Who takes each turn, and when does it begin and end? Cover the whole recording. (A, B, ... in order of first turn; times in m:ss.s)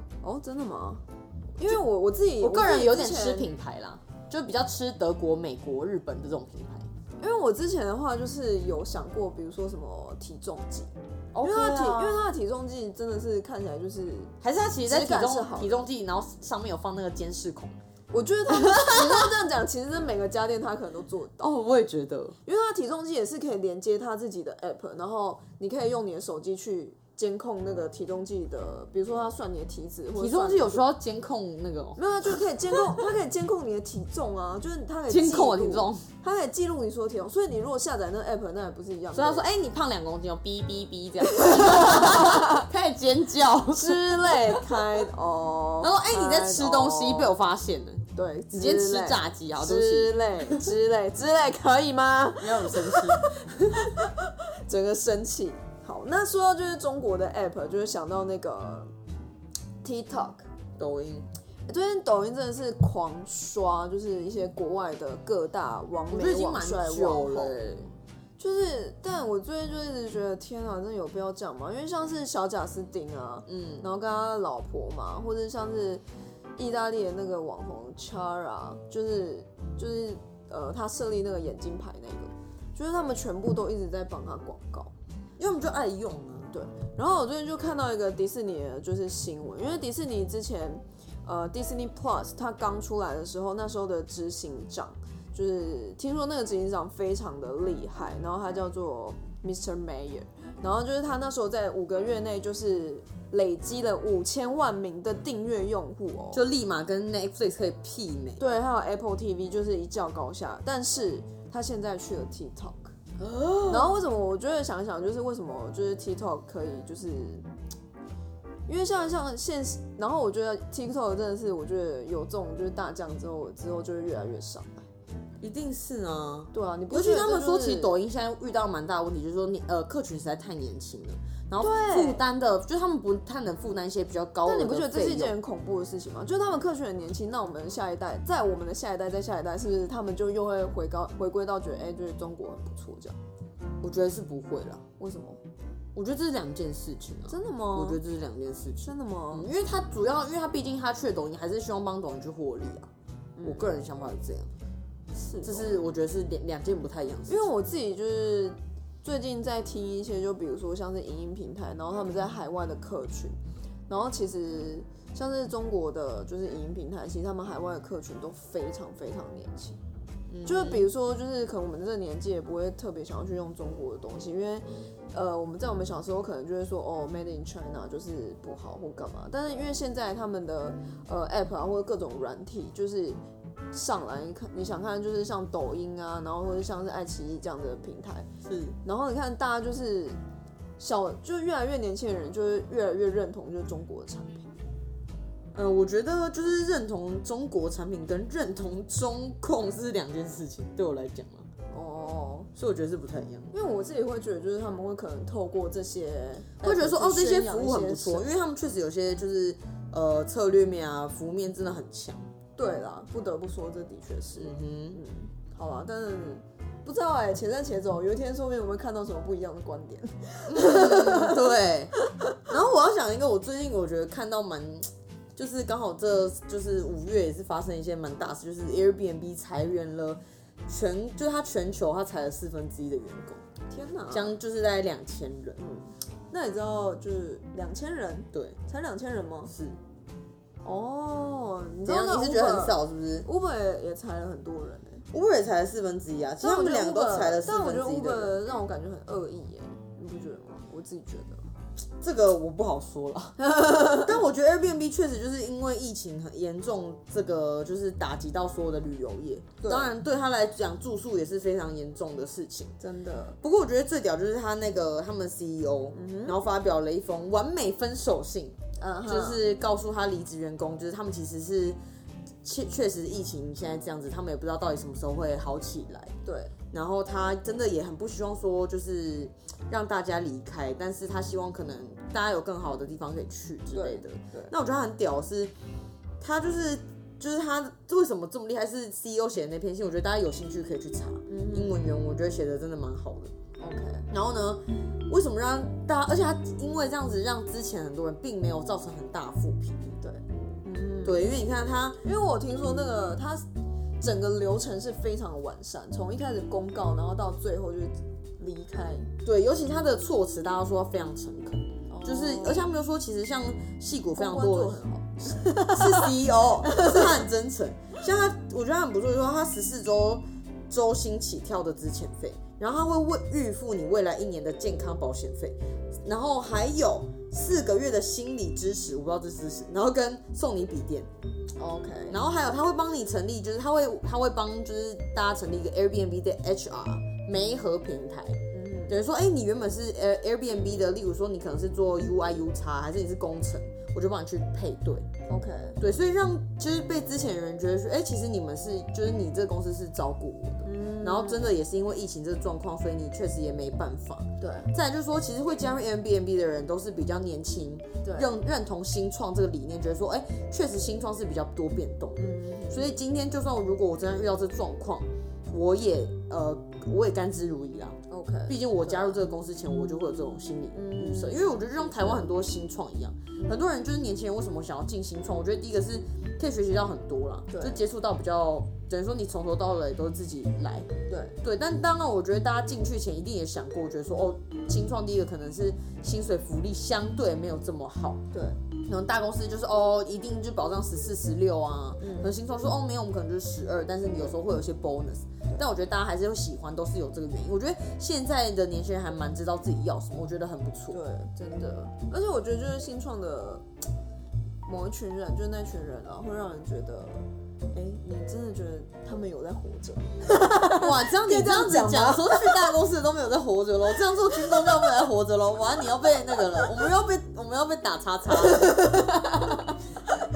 0:00.2-0:01.0 A
0:01.6-0:03.5 A
0:02.4-0:06.9 B
0:07.2-0:14.3 A
0:11.3-0:12.3 B
0:14.4-0:17.8 B
0:14.8-0:15.9 A
0:18.1-0:21.4 A
0:18.6-0:19.3 B
0:21.4-0:22.4 B
0:22.4-0:30.8 A
0:30.2-0:32.0 B
0:32.0-0:39.4 A
0:35.1-0:36.0 B
0:39.1-0:44.6 B
0:41.3-0:42.6 A
0:43.7-0:47.3 A
0:45.8-0:50.7 B
0:48.1-0:58.9 A
0:52.4-0:53.9 B
0:59.8-1:00.5 A
1:00.8-1:01.3 B
1:01.7-1:07.6 A
1:06.1-1:07.9 B
1:08.4-1:16.0 A
1:13.5-1:13.8 B
1:16.6-1:24.9 A
1:25.4-1:26.5 B
1:26.5-1:46.4 A
1:46.3-1:48.4 B
1:48.4-1:53.0 A
1:53.2-1:54.0 B
1:53.7-1:57.4 A
1:58.7-2:04.9 A
2:05.4-2:15.3 B
2:06.5-2:07.9 A
2:11.6-2:12.2 A
2:14.4-2:23.2 A
2:23.8-2:24.8 B
2:25.0-2:25.4 A
2:25.9-2:32.9 B
2:27.3-2:28.0 A
2:28.8-2:29.5 A
2:33.4-2:33.7 A
2:33.4-2:34.5 B
2:35.2-2:35.7 A
2:35.4-2:37.5 B
2:37.3-2:43.4 A
2:43.9-2:49.8 A
2:50.3-2:50.9 B
2:50.4-3:03.2 A
3:03.7-3:08.3 A
3:08.4-3:08.8 B
3:08.8-3:10.2 A
3:10.8-3:14.5 A
3:15.5-3:21.5 B
3:21.7-3:22.5 A
3:22.5-3:23.5 B
3:23.5-3:28.3 A
3:26.6-3:32.3 B
3:32.6-3:42.4 A
3:34.4-3:35.0 B
3:40.5-3:53.4 B
3:53.7-3:54.4 A
3:54.1-3:55.6 B
3:55.6-3:59.5 A
3:58.3-3:58.6 B
3:59.5-3:59.8 B
4:00.6-4:05.0 A
4:01.8-4:03.3 B
4:05.1-4:08.4 B
4:06.4-4:11.4 A
4:12.0-4:22.8 B
4:13.4-4:14.1 A
4:19.6-4:19.9 A
4:22.8-4:23.4 A
4:23.4-4:31.8 B
4:25.9-4:26.4 A
4:28.8-4:29.4 A
4:32.4-4:36.1 B
4:36.2-4:36.5 A
4:36.7-4:45.5 B
4:43.7-4:44.5 A
4:46.2-4:53.3 B
4:51.3-4:51.8 A
4:53.6-4:54.1 A
4:54.1-5:00.0 B
5:00.0-5:01.3 A
5:01.0-5:02.0 B
5:02.0-5:03.4 A
5:04.0-5:09.1 A
5:09.2-5:31.1 B
5:11.9-5:12.7 A
5:14.1-5:17.2 A
5:31.6-5:32.2 A
5:32.1-5:45.1 B
5:38.5-5:39.0 A
5:45.3-5:45.8 A
5:45.8-6:20.9 B
5:50.6-5:51.5 A
5:54.4-5:54.7 A
5:58.0-5:58.3 A
6:02.2-6:03.0 A
6:08.1-6:09.2 A
6:10.7-6:12.3 A
6:17.5-6:17.8 A
6:21.1-6:21.4 A
6:21.4-6:28.2 B
6:28.3-6:28.6 A
6:28.8-6:41.0 B
6:32.0-6:32.3 A
6:40.9-6:43.6 A
6:44.6-6:52.7 A
6:50.6-6:59.5 B
6:58.5-6:59.6 A